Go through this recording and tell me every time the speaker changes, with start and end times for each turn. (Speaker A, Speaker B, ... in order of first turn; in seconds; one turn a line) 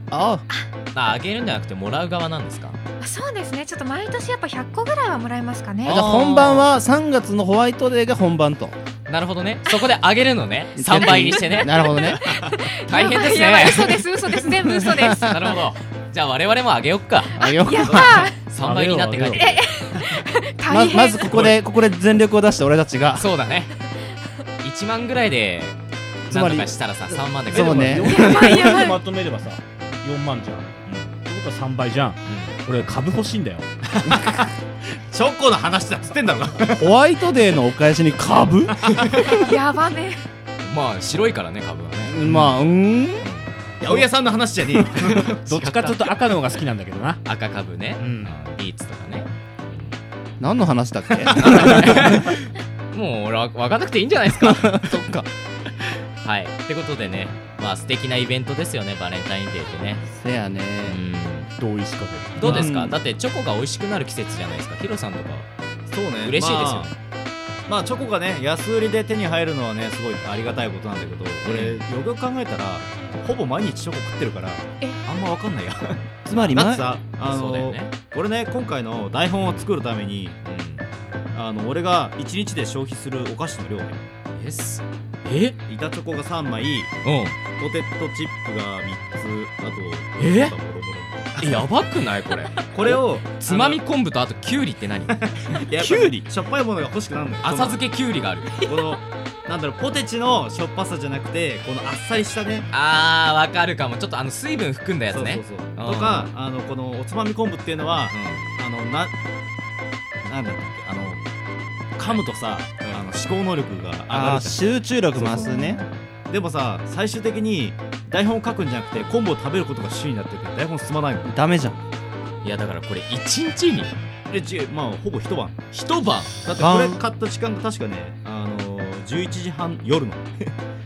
Speaker A: 0.1-0.4
Speaker B: 0.9-2.8
Speaker C: 3.0-6.0
Speaker B: 5.8-6.7
Speaker A: 5.8-8.8
Speaker B: 9.1-19.9
Speaker A: 10.8-12.2
Speaker C: 11.3-15.6
Speaker A: 17.4-18.3
Speaker C: 17.4-18.4
Speaker D: 18.6-19.6
Speaker C: 19.4-21.2
Speaker A: 20.7-23.3
Speaker B: 21.2-21.5
Speaker B: 23.1-23.9
Speaker B: 24.6-28.3
Speaker A: 26.3-28.7
Speaker D: 27.7-33.7
Speaker C: 28.1-29.0
Speaker B: 32.3-32.5
Speaker E: 34.0-34.4
Speaker E: 35.0-37.0
Speaker A: 36.7-38.7
Speaker E: 38.7-39.3
Speaker C: 39.4-40.2
Speaker B: 40.6-42.5
Speaker A: 42.0-43.3
Speaker B: 43.2-43.5
Speaker E: 43.8-45.9
Speaker D: 45.4-47.2
Speaker B: 45.6-45.9
Speaker B: 47.2-49.9
Speaker D: 48.0-48.3
Speaker A: 50.4-52.2
Speaker B: 51.3-55.0
Speaker A: 54.4-55.2
Speaker B: 56.2-60.0
Speaker A: 60.0-61.0
Speaker B: 60.9-61.5
Speaker D: 61.6-62.7
Speaker B: 62.4-65.5
Speaker A: 62.4-63.0
Speaker E: 65.9-66.9
Speaker B: 66.2-67.0
Speaker E: 67.7-80.4
Speaker B: 71.4-71.8
Speaker A: 76.3-76.8
Speaker B: 77.2-77.9
Speaker B: 79.4-79.7
Speaker B: 80.4-80.9
Speaker E: 81.3-84.0
Speaker B: 84.4-85.5
Speaker E: 85.7-87.0
Speaker B: 87.0-87.4
Speaker E: 87.5-91.6
Speaker B: 90.2-90.5
Speaker B: 91.4-96.1
Speaker E: 92.7-93.8
Speaker E: 95.3-97.8
Speaker B: 97.4-98.7
Speaker E: 98.6-102.7
Speaker B: 102.7-106.3
Speaker E: 105.1-109.1
Speaker B: 108.1-108.5
Speaker E: 110.2-111.2
Speaker E: 112.0-114.6
Speaker A: 114.1-115.8
Speaker E: 115.1-115.5
Speaker C: 115.3-115.9
Speaker E: 116.3-121.4
Speaker A: 121.2-121.8
Speaker B: 122.4-124.0
Speaker E: 124.3-125.6
Speaker B: 125.7-126.4
Speaker E: 126.4-130.5
Speaker A: 126.5-127.0